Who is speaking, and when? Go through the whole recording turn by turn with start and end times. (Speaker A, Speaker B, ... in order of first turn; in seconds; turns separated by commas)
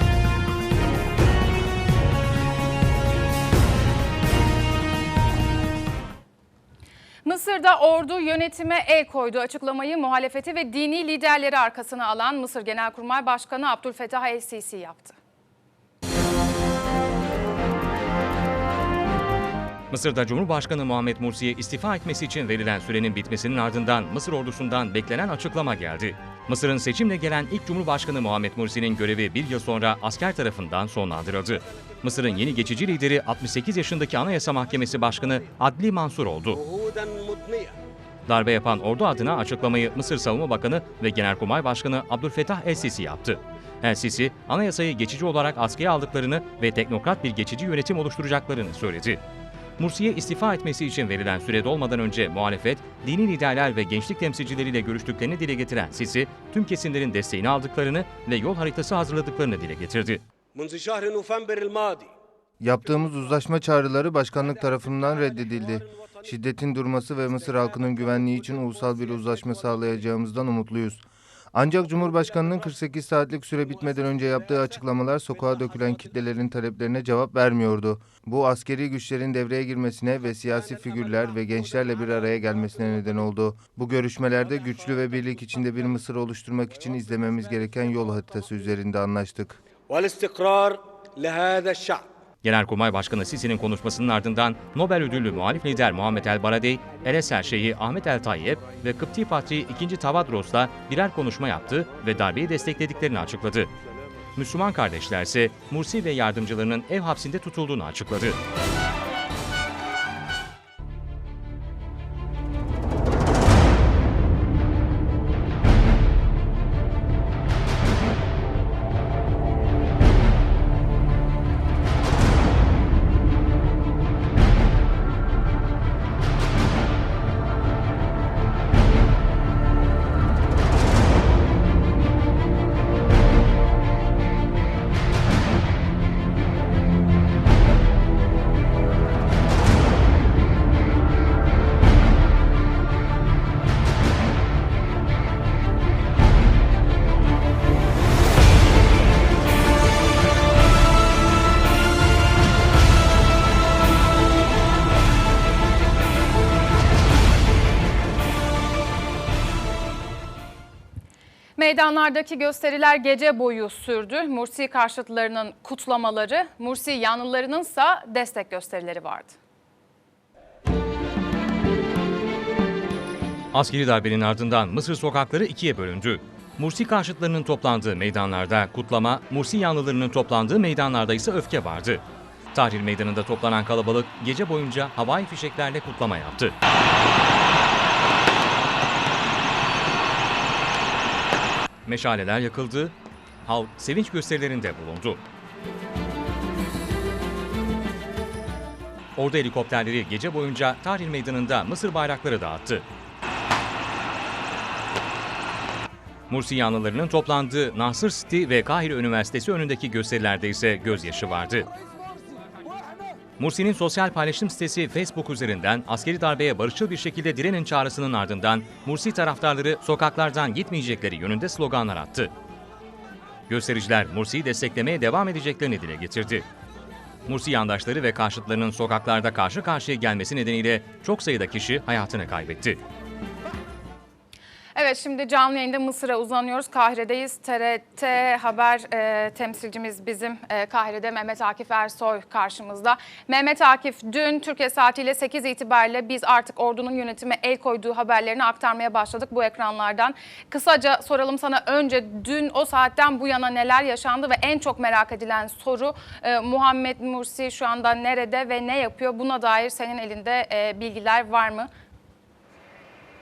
Speaker A: 7.2-15.2, Speaker B: 19.9-36.6, Speaker C: 36.5-37.8, Speaker B: 38.3-49.2, Speaker B: 49.8-60.2, Speaker C: 60.5-62.1, Speaker D: 62.6-89.6, Speaker C: 65.7-66.2, Speaker C: 89.9-92.0, Speaker B: 92.4-103.7, Speaker B: 104.3-108.4, Speaker A: 161.6-169.4, Speaker B: 173.5-186.6, Speaker B: 191.9-192.9, Speaker B: 193.5-195.2, Speaker B: 199.2-202.9, Speaker B: 206.3-211.7, Speaker B: 213.4-222.3, Speaker B: 223.5-226.5, Speaker B: 227.3-232.8, Speaker A: 234.8-261.7